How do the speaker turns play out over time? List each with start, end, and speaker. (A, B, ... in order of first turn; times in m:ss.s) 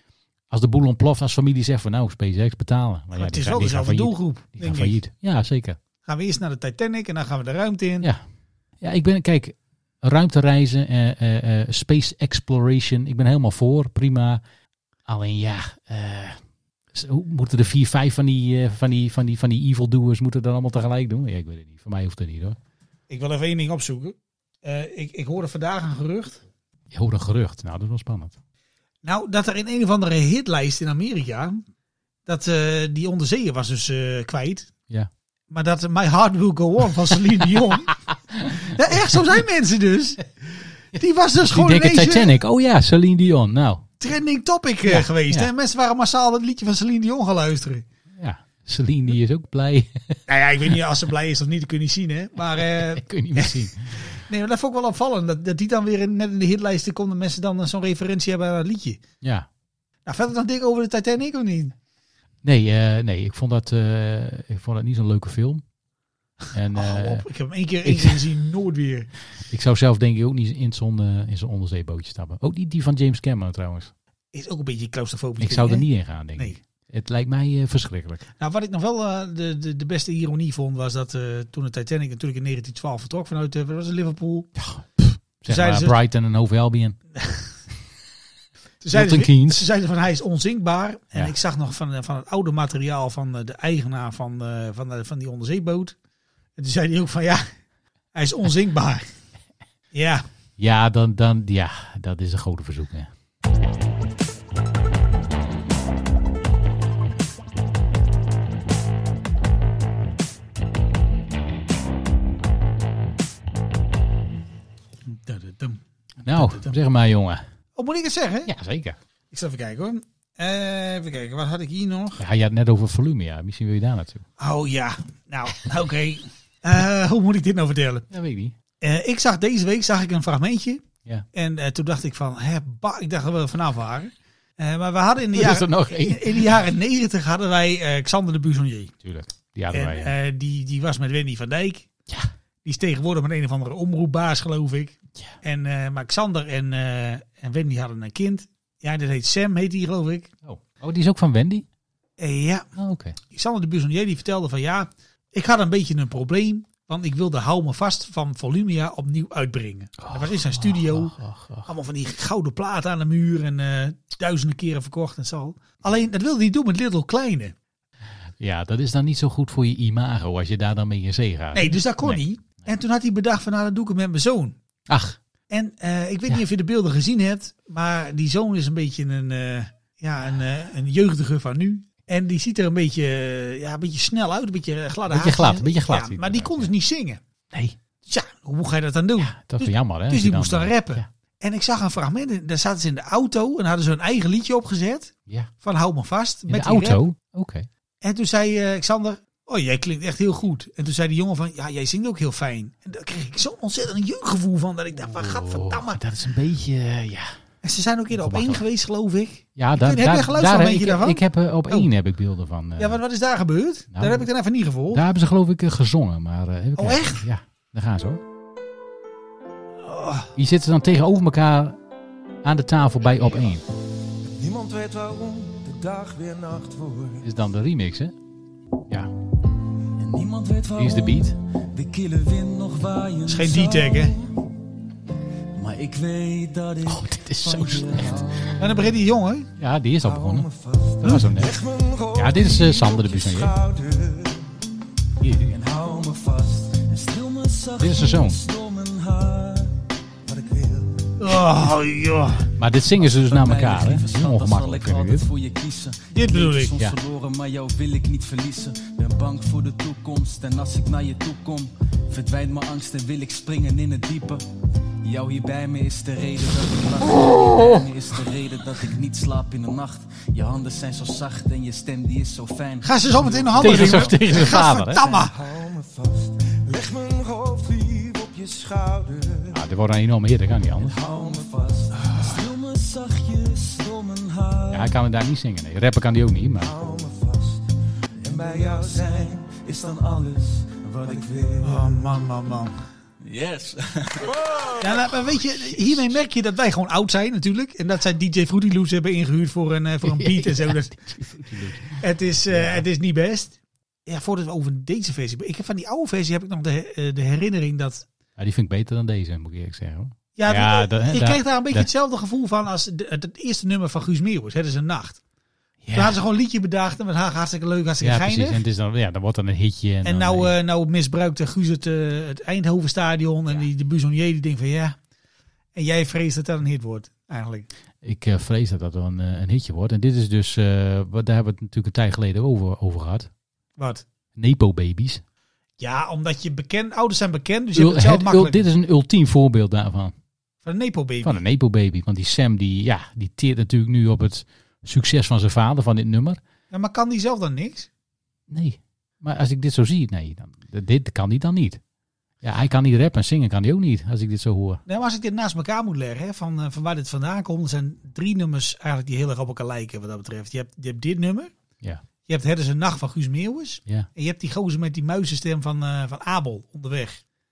0:00.5-0:05.8 A
0:03.1-0:05.0 B
0:06.0-0:08.1 B
0:08.8-0:14.4 A
0:15.0-0:16.4 A
0:16.9-0:22.6 A
0:23.1-0:26.4 B
0:26.9-0:28.3 A
0:29.0-0:31.6 B
0:32.2-0:34.7 B
0:35.5-0:37.9 B
0:38.4-0:38.7 A
0:38.6-0:42.4 B
0:41.4-0:43.9 A
0:44.0-0:47.8 B
0:44.8-0:45.5 A
0:48.2-0:50.2 A
0:50.3-0:59.0 B
0:52.7-0:54.1 A
1:00.0-1:01.7 B
1:02.4-1:05.6 A
1:06.5-1:07.2 A
1:06.7-1:09.1 B
1:07.8-1:08.2 A
1:09.5-1:13.9 A
1:14.3-1:16.6 B
1:15.4-1:18.2 A
1:18.4-1:24.5 B
1:24.6-1:27.0 A
1:25.5-1:25.9 B
1:27.2-1:27.4 B
1:28.8-1:35.9 B
1:28.9-1:29.6 A
1:36.6-1:37.5 B
1:38.1-1:39.1 B
1:39.9-1:40.2 B
1:40.6-1:43.1 A
1:55.0-1:56.7 B
1:56.2-1:57.4 A
1:57.8-1:58.5 B
1:58.4-1:59.0 A
1:59.3-2:02.2 B
2:02.2-2:04.2 A
2:04.4-2:08.0 B
2:08.1-2:08.5 A
2:08.8-2:18.9 B
2:15.3-2:16.5 A
2:19.0-2:20.1 A
2:19.7-2:21.9 B
2:22.6-2:30.3 B
2:30.4-2:31.6 A
2:32.2-2:32.7 B
2:32.8-2:33.2 A
2:33.3-2:41.1 B
2:40.0-2:41.7 A
2:41.6-2:47.5 B
2:48.4-2:52.2 A
2:51.5-2:54.6 B
2:54.9-2:55.2 A
2:55.5-3:07.2 B
3:05.1-3:06.7 A
3:08.0-3:17.0 B
3:09.2-3:11.1 A
3:16.5-3:17.7 A
3:18.0-3:26.0 B
3:25.2-3:27.4 A
3:27.6-3:31.9 B
3:28.1-3:28.6 A
3:29.6-3:33.0 A
3:32.8-3:35.0 B
3:33.9-3:34.2 A
3:34.9-3:38.2 A
3:36.8-3:37.2 B
3:39.8-3:40.3 B
3:40.4-3:41.8 A
3:42.4-3:43.6 A
3:44.3-3:47.2 C
3:47.2-3:48.1 A
3:50.0-3:54.5 C
3:50.8-3:51.4 A
3:53.2-3:54.2 B
3:55.5-3:58.9 C
3:56.8-3:58.2 A
3:58.6-3:59.5 B
3:59.6-4:00.5 A
4:00.0-4:04.6 C
4:01.0-4:01.6 A
4:02.1-4:03.6 A
4:05.2-4:05.6 A
4:05.5-4:11.3 C
4:07.8-4:08.4 A
4:11.2-4:12.4 B
4:12.6-4:15.3 A
4:13.0-4:24.4 C
4:16.1-4:16.7 B
4:25.0-4:39.6 C
4:27.5-4:27.8 A
4:32.8-4:35.4 B
4:33.6-4:35.1 A
4:39.5-4:41.0 A
4:40.8-4:44.9 C
4:44.7-4:46.8 A
4:46.6-4:47.6 C
4:48.2-4:52.1 C
4:51.6-4:52.7 B
4:53.2-4:55.1 C
4:54.8-5:00.9 B
5:00.0-5:02.8 A
5:02.0-5:08.0 B
5:08.4-5:11.9 A
5:10.4-5:15.2 B
5:15.8-5:16.2 A
5:15.9-5:18.6 B
5:18.0-5:20.6 A
5:20.0-5:25.0 B
5:25.7-5:27.7 B
5:28.0-5:33.3 A
5:33.8-5:34.0 B
5:34.4-5:35.2 A
5:35.8-5:38.6 B
5:37.7-5:40.1 A
5:40.6-5:41.4 B
5:41.2-5:46.4 A
5:46.7-5:47.9 B
5:48.5-5:51.8 A
5:52.4-5:54.8 A
5:54.9-6:01.5 B
6:02.3-6:07.2 B